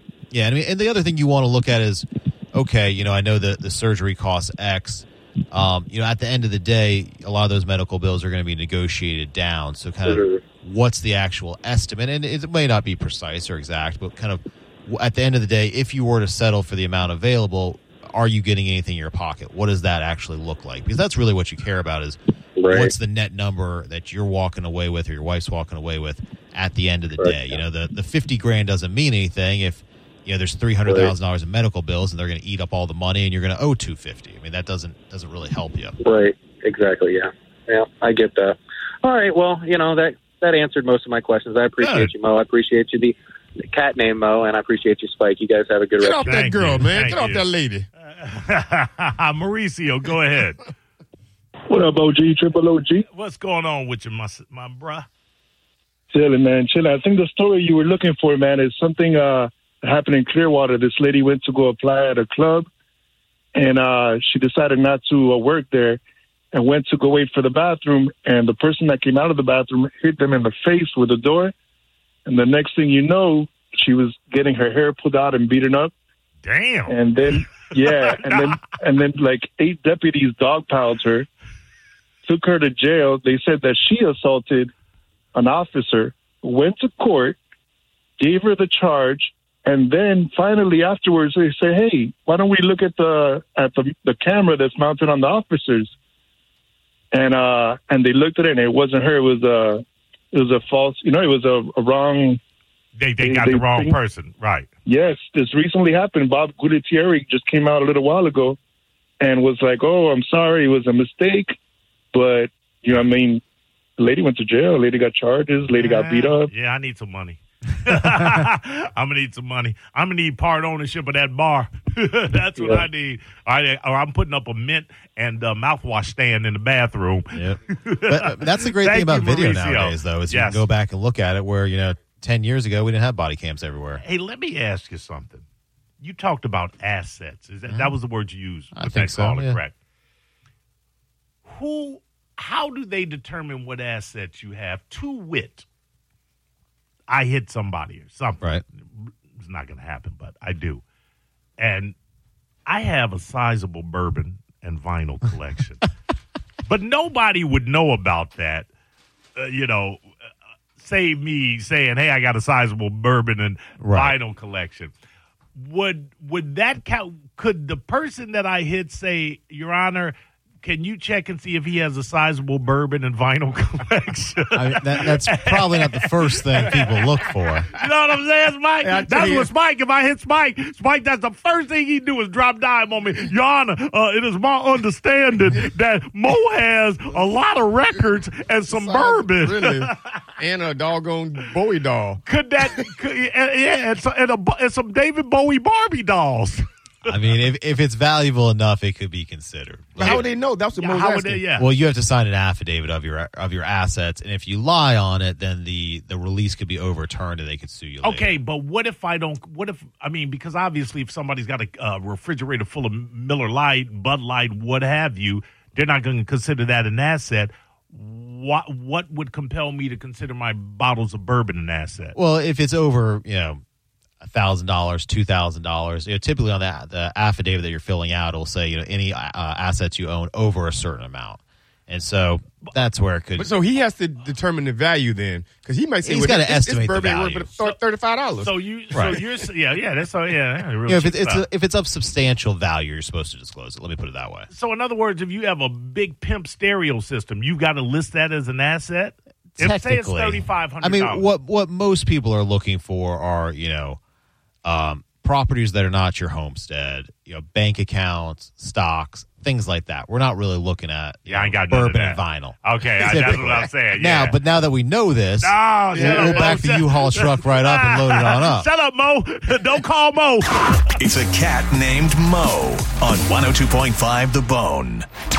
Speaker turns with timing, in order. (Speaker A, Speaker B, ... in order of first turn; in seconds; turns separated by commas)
Speaker A: 0.3-36.0, Speaker B: 10.1-10.4, Speaker B: 22.6-22.9, Speaker B: 27.2-27.6, Speaker B: 30.9-31.1, Speaker B: 36.0-43.1, Speaker C: 41.8-42.1, Speaker B: 43.7-46.2, Speaker D: 46.0-47.9, Speaker C: 46.2-47.5, Speaker C: 48.0-50.7, Speaker E: 51.7-53.1, Speaker C: 53.1-55.1, Speaker E: 56.1-62.7, Speaker E: 63.5-66.0, Speaker E: 66.5-71.5, Speaker E: 72.2-75.9, Speaker C: 76.4-78.5, Speaker E: 76.9-81.3, Speaker E: 82.3-84.7, Speaker E: 85.3-87.4, Speaker E: 88.2-95.9, Speaker E: 97.1-102.4, Speaker C: 103.0-104.7, Speaker E: 103.2-104.0, Speaker E: 104.9-108.6, Speaker E: 109.2-111.5, Speaker E: 112.1-113.4, Speaker E: 114.0-116.5, Speaker C: 115.7-130.7, Speaker A: 127.3-134.0, Speaker C: 134.0-135.5, Speaker C: 136.0-139.7, Speaker A: 137.7-137.9, Speaker A: 138.8-139.6, Speaker C: 141.4-145.7, Speaker C: 147.1-148.4, Speaker C: 149.0-150.8, Speaker C: 151.6-151.9, Speaker C: 152.7-155.9, Speaker C: 156.7-158.7, Speaker C: 159.4-160.0, Speaker C: 160.8-164.9, Speaker A: 163.8-164.2, Speaker C: 165.6-177.1, Speaker A: 174.5-177.7, Speaker C: 177.7-190.1, Speaker D: 178.8-179.5, Speaker D: 188.7-192.2, Speaker C: 192.2-196.6, Speaker A: 197.1-200.2, Speaker D: 200.0-201.4, Speaker C: 200.0-201.7, Speaker A: 201.6-208.4, Speaker C: 208.0-222.2, Speaker A: 222.2-223.6, Speaker A: 224.2-233.5, Speaker D: 233.4-238.5, Speaker A: 236.0-237.5, Speaker C: 238.4-241.4, Speaker A: 240.9-244.5, Speaker C: 244.5-251.3, Speaker A: 249.6-254.0, Speaker A: 254.7-268.7, Speaker C: 261.3-264.4, Speaker C: 265.4-270.9, Speaker D: 265.9-266.5, Speaker F: 271.0-275.1